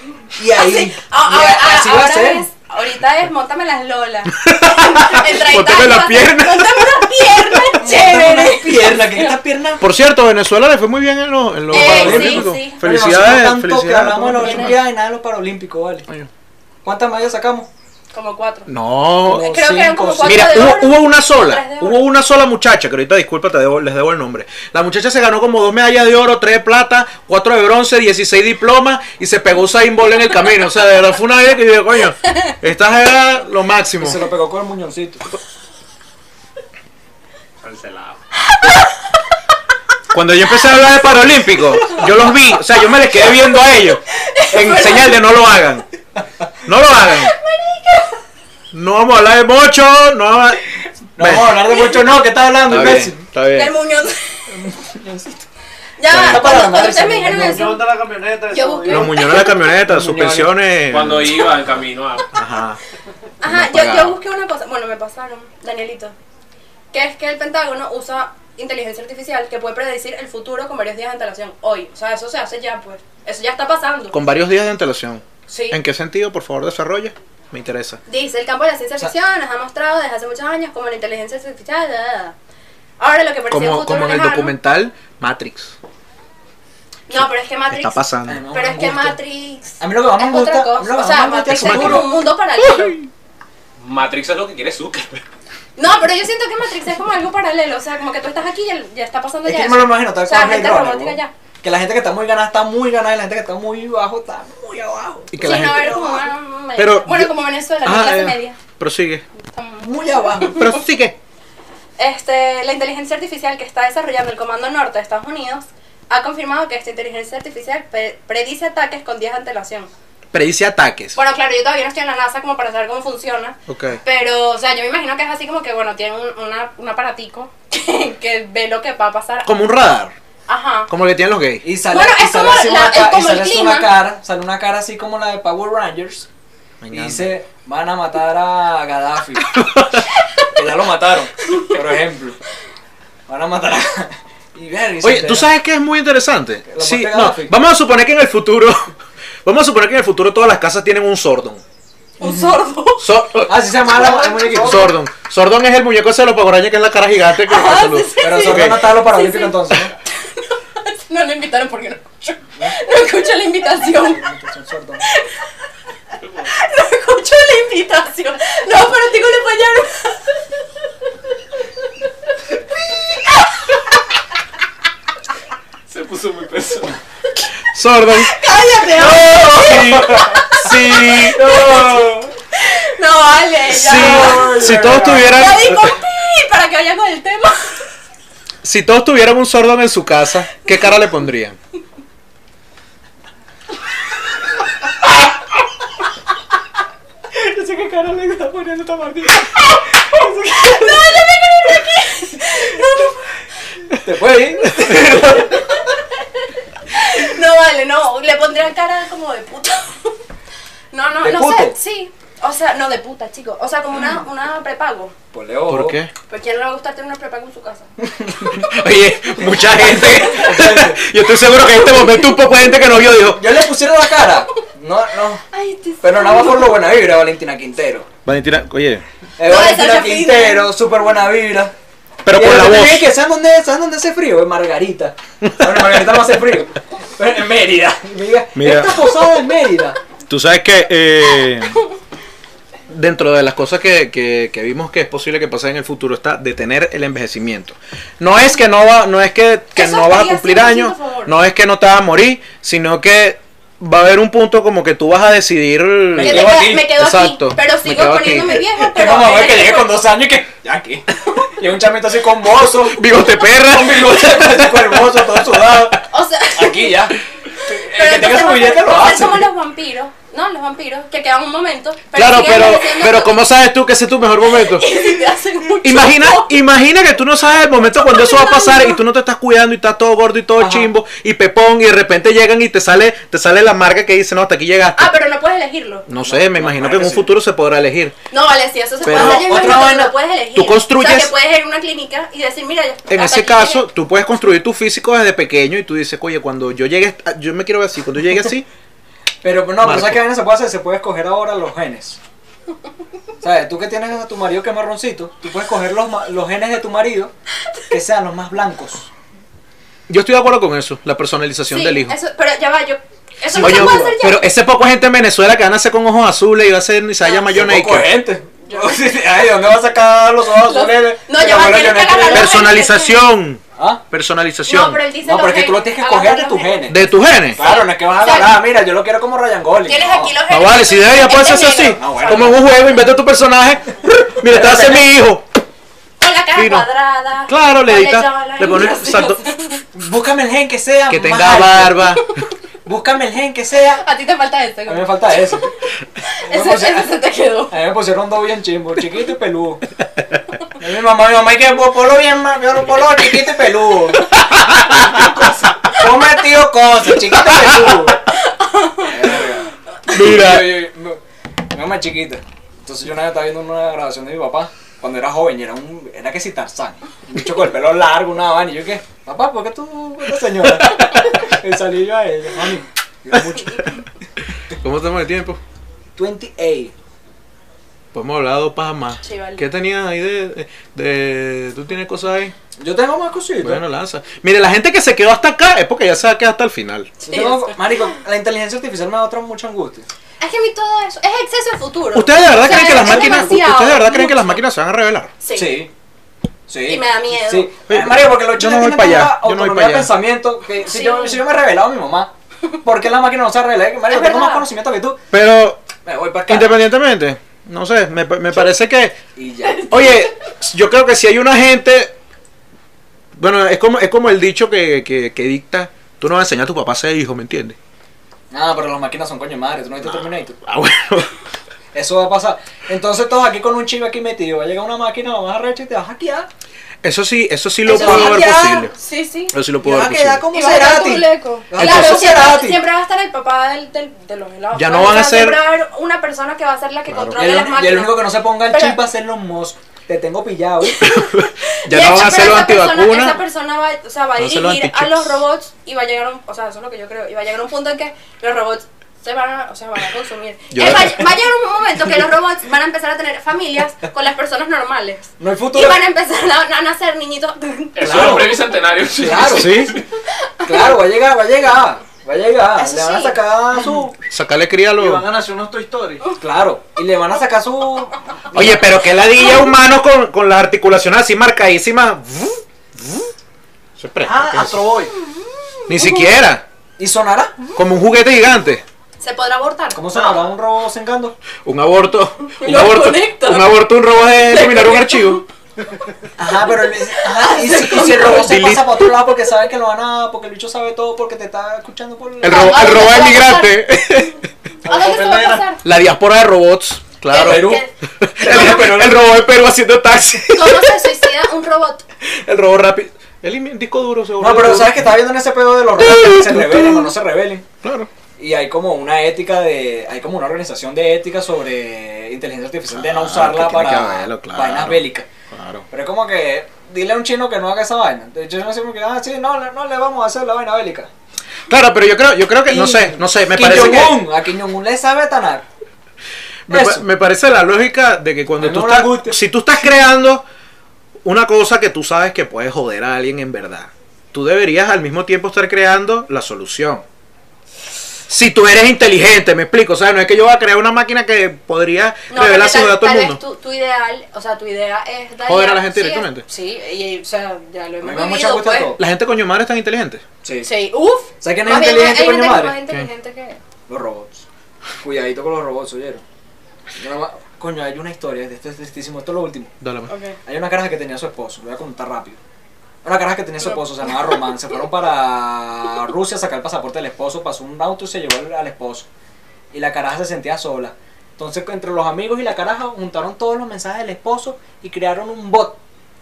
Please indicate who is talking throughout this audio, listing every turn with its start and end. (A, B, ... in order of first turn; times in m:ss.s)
0:00.3-0:02.4 A
0:00.5-0:09.4 B
0:04.3-0:07.7 C
0:07.7-0:09.8 A
0:09.8-0:14.8 C
0:11.7-0:16.1 A
0:11.7-0:12.8 B
0:14.4-0:14.8 B
0:16.8-0:17.7 A
0:18.1-0:18.7 B
0:18.7-0:19.5 C
0:19.2-0:20.7 A
0:19.4-0:22.0 B
0:20.2-0:34.2 C
0:34.0-0:35.2 A
0:37.6-0:38.2 D
0:38.6-0:38.9 B
0:40.1-0:45.8 C
0:41.8-0:42.6 B
0:43.3-0:45.3 B
0:46.6-0:47.3 C
0:46.9-0:48.2 B
0:48.7-0:50.6 C
0:51.2-0:53.2 A
0:51.2-0:51.7 C
0:51.8-0:52.0 B
0:52.7-0:53.7 C
0:53.5-0:54.7 B
0:54.5-0:55.4 A
0:56.0-0:57.9 B
0:56.1-0:56.6 C
0:56.2-0:57.7 A
0:57.2-0:59.4 E
0:58.5-0:59.7 B
0:58.9-1:02.8 C
0:59.8-1:00.5 A
1:00.9-1:02.3 D
1:03.4-1:06.1 B
1:03.4-1:04.2 C
1:06.9-1:14.2 B
1:14.1-1:18.0 C
1:15.5-1:15.8 B
1:18.1-1:22.3 B
1:23.0-1:24.5 B
1:23.5-1:25.8 C
1:27.1-1:28.0 B
1:27.1-1:28.4 C
1:28.3-1:29.2 A
1:28.5-1:33.0 B
1:29.8-1:32.1 A
1:31.5-1:33.1 C
1:33.8-1:35.2 D
1:35.8-1:41.3 B
1:39.4-1:46.2 A
1:45.3-1:46.2 C
1:45.4-1:48.6 B
1:46.8-1:49.2 C
1:49.5-1:50.7 B
1:49.8-1:50.6 A
1:50.4-1:51.2 C
1:52.0-1:59.9 B
2:00.3-2:01.2 C
2:01.1-2:09.5 B
2:03.7-2:04.0 C
2:09.4-2:10.1 C
2:10.5-2:10.9 B
2:10.9-2:11.6 C
2:11.6-2:16.3 A
2:11.9-2:13.9 B
2:16.8-2:17.3 C
2:16.9-2:19.6 A
2:19.5-2:20.0 C
2:20.5-2:22.4 A
2:23.3-2:25.5 A
2:25.0-2:28.9 C
2:26.7-2:27.6 A
2:29.4-2:31.6 C
2:32.2-2:33.1 B
2:32.2-2:32.5 A
2:33.0-2:33.8 C
2:33.4-2:34.9 A
2:33.9-2:34.8 B
2:34.6-2:38.9 C
2:37.4-2:44.2 B
2:38.2-2:39.9 A
2:43.8-2:45.0 A
2:45.0-2:45.3 B
2:46.2-2:46.5 D
2:46.4-2:50.4 B
2:55.9-2:57.0 D
2:57.6-2:58.4 C
2:58.2-3:07.8 B
2:59.0-3:01.7 C
2:59.8-3:00.4 A
3:01.0-3:02.3 A
3:03.7-3:06.0 C
3:03.8-3:05.6 A
3:08.6-3:11.6 C
3:17.3-3:20.9 A
3:19.6-3:23.2 B
3:23.9-3:25.6 A
3:24.8-3:25.2 C
3:25.2-3:25.9 B
3:26.9-3:30.2 B
3:30.9-3:35.1 B
3:31.2-3:31.8 A
3:35.3-3:36.0 A
3:35.7-3:36.1 C
3:36.3-3:37.9 B
3:38.0-3:38.7 A
3:38.6-3:43.5 C
3:39.4-3:41.0 A
3:39.9-3:40.2 B
3:43.2-3:45.4 A
3:45.5-3:46.9 B
3:46.0-3:48.1 A
3:48.2-3:49.0 C
3:49.4-3:51.7 A
3:49.4-3:50.7 B
3:52.2-3:53.1 C
3:52.3-4:00.0 A
3:55.4-3:55.9 C
3:58.5-3:59.0 C
4:00.3-4:01.8 C
4:02.9-4:18.7 C
4:09.7-4:11.4 B
4:16.1-4:16.9 A
4:16.2-4:20.1 B
4:18.9-4:26.0 A
4:22.8-4:26.0 C
4:26.1-4:27.0 B
4:26.5-4:29.5 A
4:27.6-4:33.3 B
4:32.1-4:34.9 C
4:34.5-4:36.5 B
4:35.8-4:45.1 C
4:38.0-4:39.0 B
4:40.6-4:40.9 A
4:45.0-4:46.1 B
4:46.1-4:48.1 C
4:46.2-4:47.4 A
4:48.3-4:53.9 B
4:49.0-4:49.8 C
4:49.1-4:50.1 A
4:50.5-4:51.3 C
4:53.1-4:58.7 C
4:59.4-5:02.2 A
4:59.8-5:00.2 C
5:03.4-5:07.3 A
5:07.9-5:09.1 A
5:10.1-5:12.2 C
5:11.7-5:14.5 B
5:13.4-5:14.2 A
5:13.6-5:18.1 C
5:17.5-5:22.6 A
5:18.7-5:19.0 B
5:20.5-5:23.2 B
5:22.3-5:25.0 C
5:23.8-5:24.0 A
5:24.6-5:27.0 B
5:25.2-5:27.0 A
5:26.9-5:27.6 C
5:27.5-5:28.6 B
5:27.6-5:30.3 A
5:29.9-5:33.0 B
5:30.5-5:35.4 C
5:32.0-5:32.6 A
5:34.4-5:35.0 A
5:36.2-5:39.8 B
5:36.5-5:36.9 C
5:37.5-5:39.4 C
5:39.9-5:42.1 A
5:41.1-5:42.4 C
5:42.8-5:44.0 A
5:43.9-5:45.6 B
5:44.8-5:45.7 A
5:46.2-5:47.7 B
5:46.4-5:47.2 A
5:47.7-5:49.8 A
5:50.8-5:54.3 A
5:54.3-5:55.5 C
5:55.9-5:58.2 A
5:58.3-5:59.4 B
5:59.0-6:01.2 A
6:00.1-6:00.8 C
6:01.7-6:14.0 A
6:14.7-6:15.6 C
6:16.2-6:16.9 A
6:18.1-6:22.5 C
6:19.2-6:19.6 B
6:22.8-6:23.8 A
6:23.6-6:27.1 C
6:27.2-6:28.1 B
6:27.2-6:30.1 A
6:30.4-6:34.6 B
6:32.1-6:35.3 C
6:35.4-6:35.8 B
6:35.5-6:35.9 A
6:36.7-6:45.2 A
6:36.9-6:37.7 B
6:37.9-6:40.2 C
6:40.8-6:41.4 B
6:44.1-6:44.7 B
6:45.3-6:45.8 C
6:46.0-6:46.8 A
6:46.5-6:49.2 C
6:49.4-6:50.1 A
6:49.9-6:52.1 C
6:53.4-6:57.8 C
6:58.5-7:00.6 A
7:00.6-7:01.3 C
7:01.9-7:06.5 A
7:07.0-7:08.9 C
7:07.8-7:08.8 A
7:07.9-7:09.5 B
7:09.5-7:10.4 C
7:09.8-7:12.8 A
7:10.5-7:19.0 B
7:11.8-7:12.2 C
7:14.7-7:15.6 C
7:17.1-7:17.4 C
7:17.4-7:21.1 A
7:21.0-7:38.3 B
7:21.0-7:23.4 C
7:24.4-7:25.4 C
7:30.7-7:31.3 C
7:35.4-7:36.0 A
7:38.0-7:40.0 D
7:38.0-7:39.9 A
7:39.5-7:40.0 C
7:40.6-7:44.2 A
7:40.7-7:41.0 B
7:42.8-7:43.4 B
7:44.3-7:45.3 C
7:45.0-7:46.3 E
7:46.4-7:48.6 A
7:48.5-7:53.3 C
7:54.0-7:54.8 C
7:54.2-7:55.1 E
7:54.3-7:55.0 A
7:55.2-7:56.3 B
7:55.9-7:56.6 C
7:57.0-7:57.5 A
7:57.7-7:58.8 C
7:59.2-8:00.4 B
7:59.9-8:01.4 A
8:01.6-8:05.4 C
8:02.5-8:05.4 B
8:06.4-8:13.0 A
8:07.2-8:08.5 B
8:08.2-8:09.1 C
8:12.4-8:14.4 C
8:12.4-8:13.8 B
8:14.8-8:15.8 B
8:14.8-8:15.6 E
8:14.9-8:15.5 A
8:15.8-8:21.1 C
8:17.3-8:17.9 B
8:17.3-8:17.8 A
8:18.4-8:19.2 A
8:18.4-8:18.7 B
8:20.5-8:22.0 B
8:22.2-8:25.0 C
8:24.4-8:27.6 A
8:26.0-8:27.1 C
8:27.8-8:28.1 C
8:28.4-8:35.3 A
8:32.9-8:35.9 C
8:35.9-8:41.1 A
8:41.7-8:44.3 C
8:42.7-8:45.6 A
8:46.7-8:50.4 C
8:46.7-8:47.0 A
8:48.6-8:49.4 A
8:51.2-8:57.0 C
8:58.3-9:03.4 C
9:02.3-9:08.9 B
9:05.4-9:06.4 C
9:08.0-9:09.0 A
9:09.0-9:10.2 C
9:10.4-9:10.7 A
9:10.6-9:13.6 B
9:11.4-9:12.8 A
9:13.9-9:14.4 A
9:15.0-9:16.2 A
9:17.0-9:19.7 A
9:19.8-9:20.1 C
9:20.1-9:20.4 B
9:20.4-9:22.4 A
9:23.0-9:29.1 A
9:23.6-9:24.3 B
9:29.7-9:35.8 A